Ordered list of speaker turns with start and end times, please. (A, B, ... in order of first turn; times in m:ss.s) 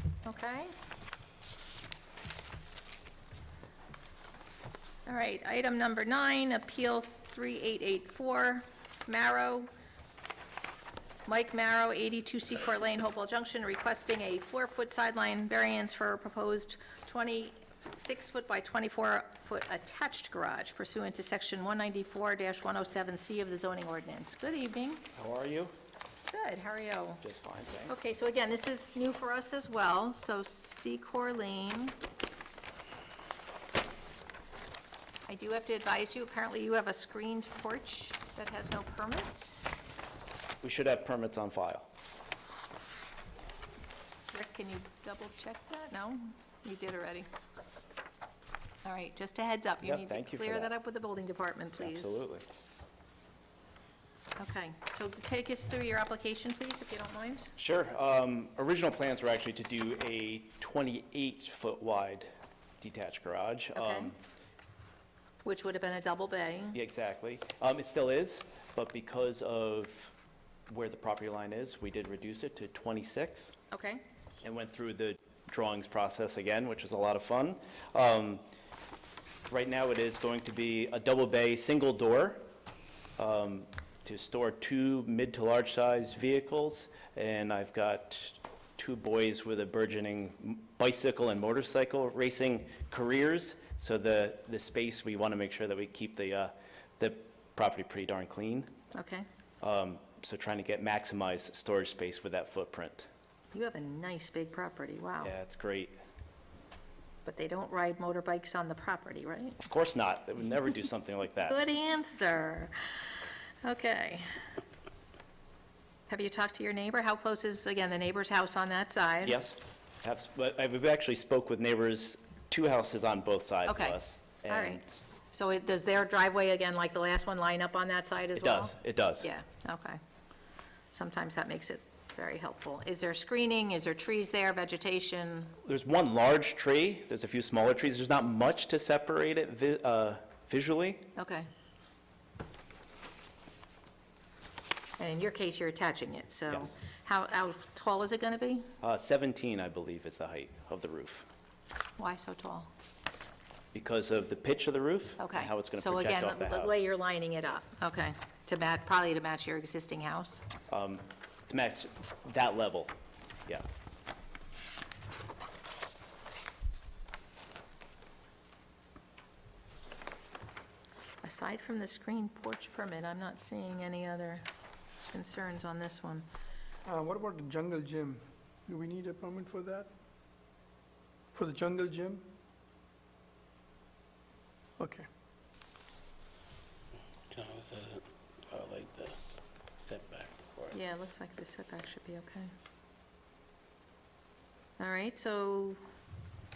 0:00.2-0:00.7 A
0:05.1-0:09.7 A
0:11.3-0:25.1 A
0:25.2-0:25.7 B
0:26.3-0:27.2 A
0:27.2-0:27.9 B
0:27.9-0:32.0 A
0:35.3-0:39.6 A
0:40.6-0:41.9 B
0:44.3-0:47.3 A
0:48.8-0:52.2 A
0:49.8-0:50.7 B
0:51.8-0:52.4 B
0:54.4-0:57.5 A
0:57.6-1:04.2 B
1:03.8-1:04.1 A
1:05.4-1:06.8 A
1:06.7-1:10.1 B
1:10.7-1:13.6 B
1:13.7-1:14.0 A
1:14.4-1:18.4 B
1:19.5-1:22.4 B
1:23.2-1:38.7 B
1:38.9-1:39.3 A
1:39.6-1:43.1 B
1:43.5-1:45.4 A
1:45.2-1:46.0 B
1:47.2-1:49.6 A
1:49.6-1:51.6 B
1:51.5-1:53.0 A
1:53.6-1:54.3 A
1:56.1-1:59.4 A
1:59.2-2:05.0 B
2:03.7-2:10.0 A
2:08.4-2:09.3 B
2:10.9-2:15.6 A
2:15.6-2:21.1 B
2:21.2-2:21.5 A
2:25.0-2:28.7 A
2:26.5-2:26.8 B
2:28.8-2:31.3 B
2:32.0-2:32.7 A
2:33.7-2:36.8 B
2:35.2-2:40.4 A
2:40.7-2:42.9 B
2:43.5-2:43.7 B
2:51.2-2:54.4 A
2:55.1-2:56.3 A
2:56.9-2:59.9 C
3:01.3-3:02.3 C
3:04.8-3:05.1 C
3:07.3-3:09.2 D
3:09.8-3:10.7 D
3:10.7-3:12.5 A
3:14.8-3:15.8 A